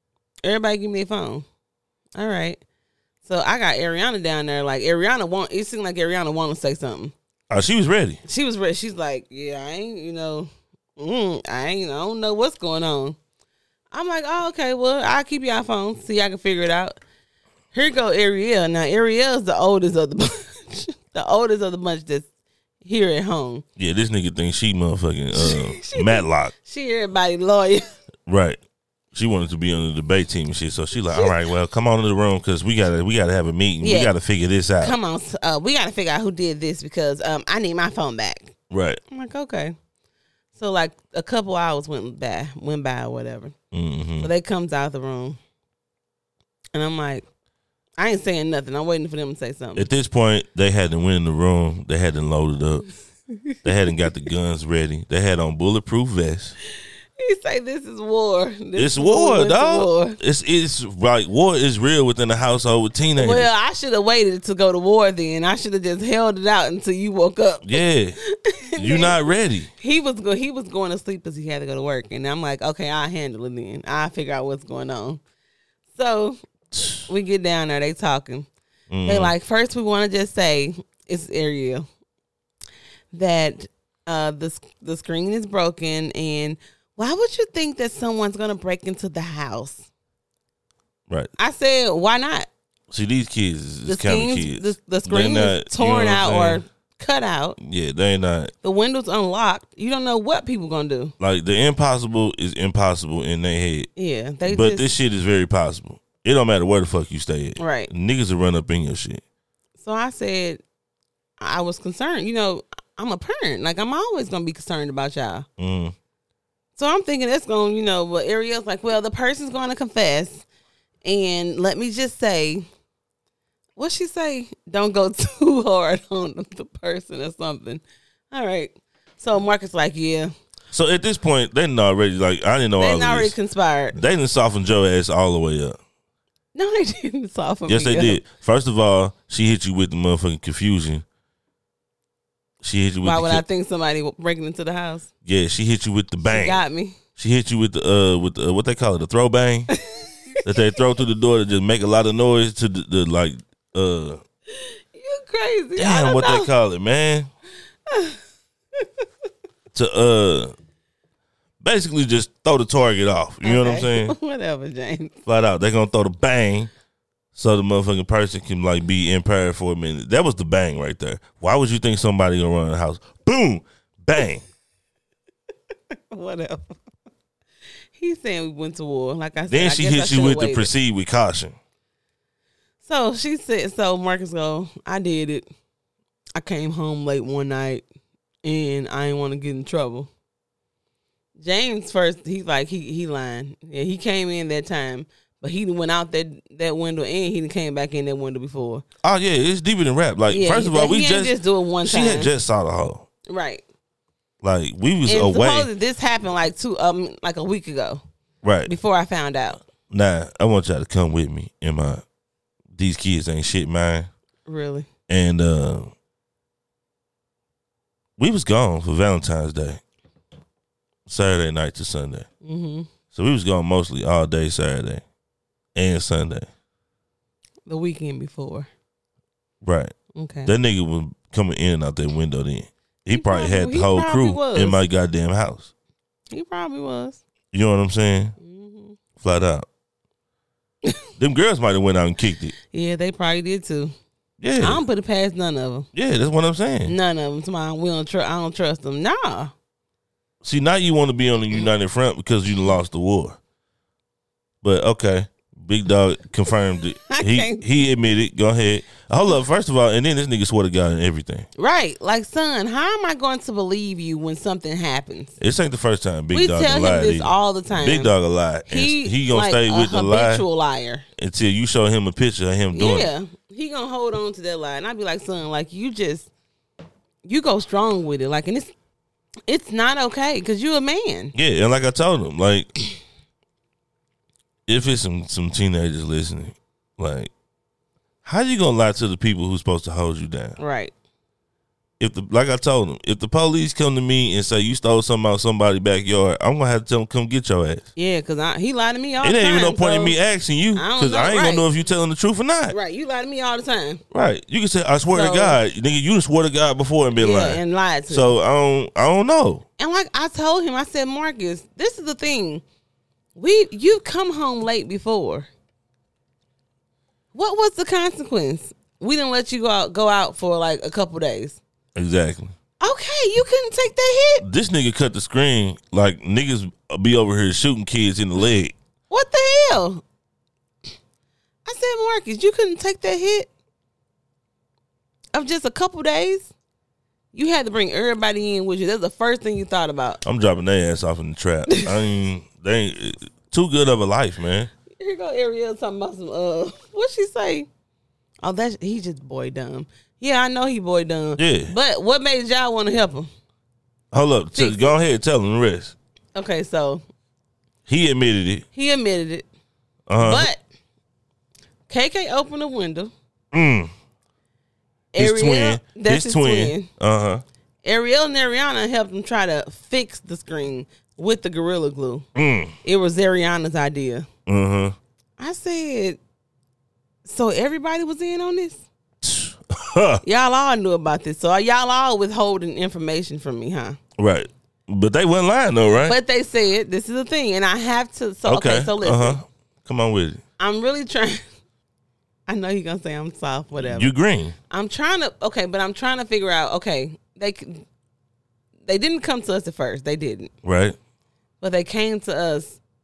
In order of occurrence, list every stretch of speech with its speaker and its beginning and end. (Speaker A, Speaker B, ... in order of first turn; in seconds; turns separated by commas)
Speaker A: 0.4-1.4, Speaker A: 2.2-2.6, Speaker A: 3.2-7.1, Speaker B: 7.5-8.2, Speaker A: 8.2-13.2, Speaker A: 13.9-17.0, Speaker A: 17.7-22.3, Speaker A: 22.8-23.6, Speaker B: 23.8-26.5, Speaker A: 25.3-27.9, Speaker B: 28.3-28.6, Speaker B: 29.1-35.0, Speaker A: 33.8-34.1, Speaker A: 34.8-38.5, Speaker B: 38.7-39.0, Speaker A: 39.1-39.8, Speaker A: 40.5-43.5, Speaker B: 43.7-44.3, Speaker A: 44.2-45.4, Speaker A: 46.7-47.3, Speaker A: 48.0-49.9, Speaker B: 49.8-52.9, Speaker A: 53.3-53.6, Speaker B: 53.6-56.5, Speaker A: 57.2-60.2, Speaker B: 58.8-63.5, Speaker A: 63.2-67.8, Speaker B: 67.6-68.2, Speaker A: 68.5-69.2, Speaker B: 68.8-69.7, Speaker A: 69.8-75.2, Speaker A: 75.9-76.4, Speaker B: 76.8-77.0, Speaker A: 77.1-78.5, Speaker B: 78.9-79.3, Speaker A: 79.0-81.9, Speaker A: 83.1-89.9, Speaker A: 91.4-92.5, Speaker B: 92.9-96.6, Speaker A: 93.9-97.6, Speaker B: 97.6-98.5, Speaker A: 98.6-101.1, Speaker B: 101.2-103.9, Speaker A: 104.0-104.9, Speaker B: 104.5-109.2, Speaker A: 107.6-107.9, Speaker A: 109.8-110.6, Speaker A: 111.4-115.5, Speaker B: 115.6-115.9, Speaker A: 116.8-120.5, Speaker A: 121.0-122.7, Speaker A: 123.8-130.3, Speaker B: 130.7-133.3, Speaker A: 132.8-134.0, Speaker B: 133.9-135.8, Speaker A: 136.6-138.2, Speaker B: 137.7-141.1, Speaker B: 142.6-143.4, Speaker A: 143.0-145.1, Speaker B: 145.2-146.6, Speaker A: 146.2-147.0, Speaker B: 147.2-149.7, Speaker A: 149.7-150.1, Speaker B: 150.4-154.2, Speaker A: 154.5-156.5, Speaker B: 155.8-157.3, Speaker A: 157.9-158.2, Speaker A: 158.8-159.0, Speaker B: 159.7-160.5, Speaker B: 161.6-164.1, Speaker A: 163.4-165.2, Speaker B: 165.3-166.7, Speaker B: 167.3-174.4, Speaker A: 175.9-176.8, Speaker A: 178.0-180.7, Speaker B: 179.5-181.6, Speaker A: 182.8-185.5, Speaker A: 186.4-187.8, Speaker A: 188.4-190.1, Speaker A: 191.4-198.8, Speaker B: 199.0-203.1, Speaker A: 200.3-202.3, Speaker A: 203.3-203.6, Speaker B: 204.4-205.7, Speaker A: 205.1-208.0, Speaker B: 208.4-208.7, Speaker A: 208.7-209.6, Speaker B: 209.9-212.0, Speaker B: 212.8-214.1, Speaker A: 214.5-214.9, Speaker B: 215.1-215.9, Speaker B: 218.2-219.8, Speaker B: 221.1-222.3, Speaker A: 222.4-222.9, Speaker B: 223.1-225.0, Speaker B: 225.8-226.5, Speaker A: 227.7-228.7, Speaker B: 229.6-229.9, Speaker A: 230.2-230.5, Speaker B: 230.4-235.7, Speaker A: 233.1-234.8, Speaker A: 236.3-237.2, Speaker B: 237.5-238.4, Speaker A: 238.4-239.0, Speaker B: 239.2-239.7, Speaker B: 241.2-242.5, Speaker A: 242.7-243.9, Speaker B: 244.4-244.8, Speaker A: 244.6-245.9, Speaker B: 245.9-246.9, Speaker A: 246.9-249.5, Speaker B: 250.4-253.4, Speaker B: 254.6-261.5, Speaker A: 257.1-257.6, Speaker A: 261.6-265.4, Speaker B: 265.4-270.4, Speaker A: 266.3-268.1, Speaker A: 268.7-271.1, Speaker B: 271.2-273.1, Speaker A: 272.7-276.3, Speaker A: 277.2-278.7, Speaker A: 279.5-281.3, Speaker B: 281.3-282.7, Speaker B: 284.7-287.3, Speaker B: 288.2-290.6, Speaker A: 290.6-290.9, Speaker B: 292.0-297.9, Speaker A: 298.0-300.2, Speaker B: 299.2-302.8, Speaker A: 300.8-301.6, Speaker A: 302.7-304.0, Speaker B: 304.1-309.6, Speaker A: 305.1-305.6, Speaker A: 307.2-308.4, Speaker A: 309.8-312.6, Speaker A: 313.4-315.5, Speaker A: 317.3-321.6, Speaker B: 321.9-322.5, Speaker A: 322.8-324.4, Speaker B: 324.4-328.8, Speaker A: 329.1-330.0, Speaker A: 331.7-333.5, Speaker A: 335.3-336.5, Speaker A: 337.3-340.2, Speaker B: 340.2-344.7, Speaker A: 344.9-347.7, Speaker A: 348.4-353.3, Speaker B: 351.4-351.7, Speaker B: 354.1-355.9, Speaker A: 354.6-355.0, Speaker A: 356.4-357.0, Speaker B: 357.9-358.7, Speaker A: 358.7-359.5, Speaker B: 360.1-360.5, Speaker A: 360.2-360.6, Speaker A: 361.9-363.1, Speaker B: 363.5-363.9, Speaker A: 365.1-366.9, Speaker B: 365.2-367.4, Speaker A: 367.8-372.3, Speaker B: 372.4-372.8, Speaker A: 372.8-374.3, Speaker B: 374.5-375.0, Speaker A: 375.4-376.2, Speaker A: 377.2-378.8, Speaker B: 379.2-380.2, Speaker A: 380.2-384.0, Speaker B: 384.2-386.2, Speaker A: 386.0-389.4, Speaker B: 388.5-390.4, Speaker A: 390.6-391.4, Speaker A: 392.5-394.1, Speaker B: 393.8-394.6, Speaker A: 394.7-397.9, Speaker A: 398.9-400.5, Speaker B: 400.6-401.0, Speaker A: 401.6-402.8